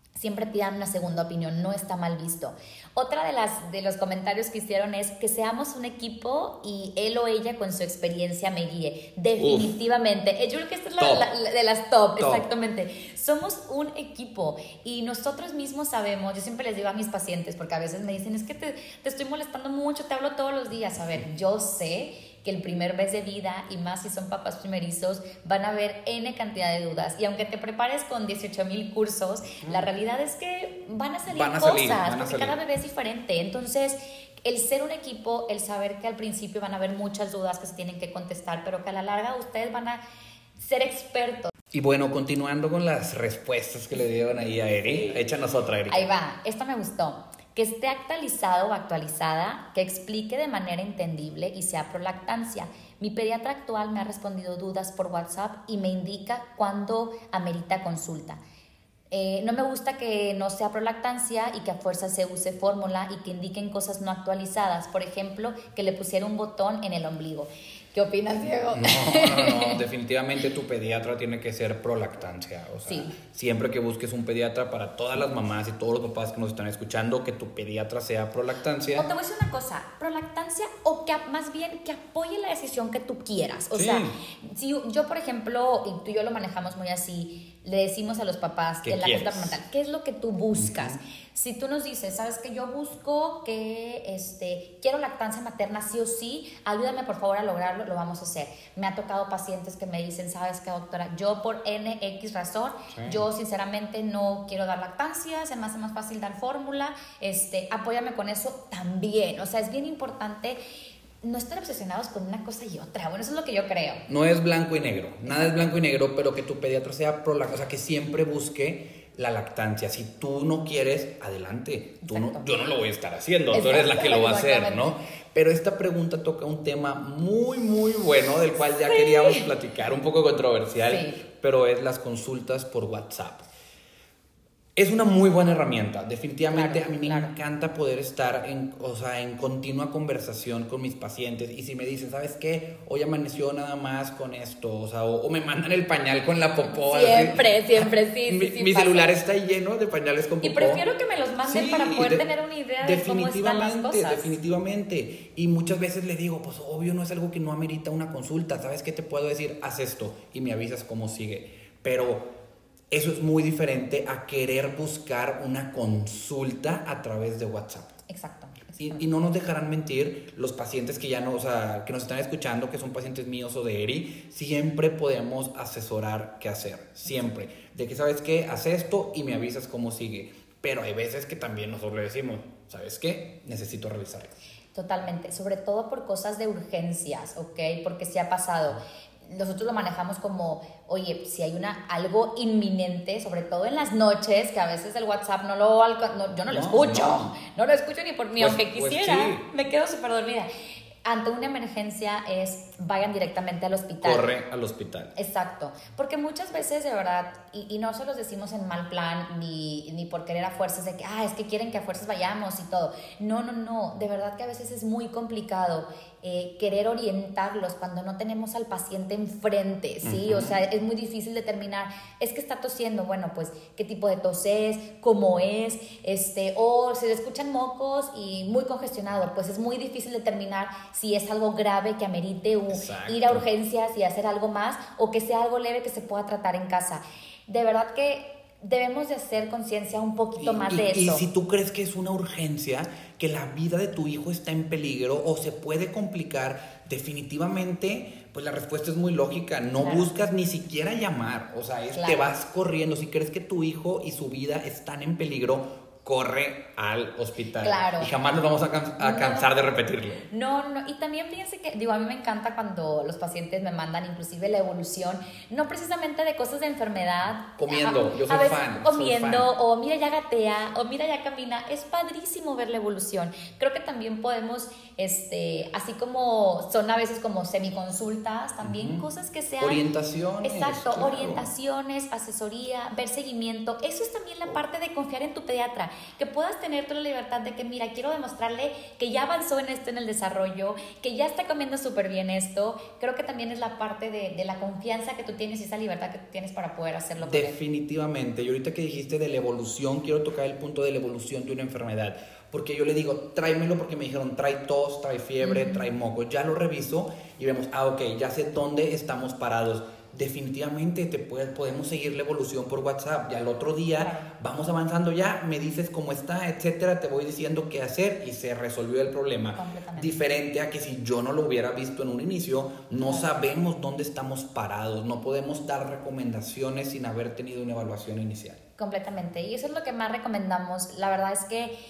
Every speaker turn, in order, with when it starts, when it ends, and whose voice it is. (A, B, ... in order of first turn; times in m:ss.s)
0:00.2-0:40.0 A
0:09.4-0:09.7 B
0:11.0-0:11.3 B
0:12.2-0:12.4 B
0:31.3-0:32.6 B
0:40.6-0:41.5 A
0:41.7-0:46.1 B
0:45.9-0:58.4 A
0:59.1-1:09.8 A
1:08.7-1:19.1 B
1:12.8-1:13.1 A
1:18.9-1:50.6 A
1:23.7-1:24.2 B
1:28.8-1:29.6 B
1:30.5-1:31.0 B
1:43.0-1:43.2 B
1:51.2-1:54.0 A
1:54.1-2:13.5 B
2:02.0-2:02.5 A
2:03.5-2:04.8 A
2:08.8-2:09.5 A
2:10.8-2:11.2 A
2:14.8-2:30.8 B
2:16.5-2:17.3 A
2:26.8-2:29.1 A
2:30.4-2:34.3 A
2:31.4-2:32.3 B
2:32.8-2:42.3 B
2:42.9-2:47.9 B
2:48.1-2:49.0 A
2:48.8-3:04.3 B
3:04.7-3:20.5 A
3:16.5-3:17.3 B
3:18.4-3:19.4 B
3:21.0-3:24.3 A
3:24.0-3:25.1 B
3:25.2-4:01.3 A
3:40.0-3:40.6 B
3:52.7-3:53.4 B
4:00.4-4:20.2 B
4:09.8-4:10.1 A
4:11.9-4:12.3 A
4:17.6-4:18.1 A
4:19.0-4:19.5 A
4:20.3-4:39.8 A
4:27.6-4:29.5 B
4:38.6-4:39.0 B
4:39.6-4:41.5 B
4:40.4-4:57.6 A
4:57.2-5:28.6 B
5:05.4-5:05.9 A
5:14.0-5:14.3 A
5:19.5-5:20.2 A
5:23.0-5:23.4 A
5:28.8-5:31.8 A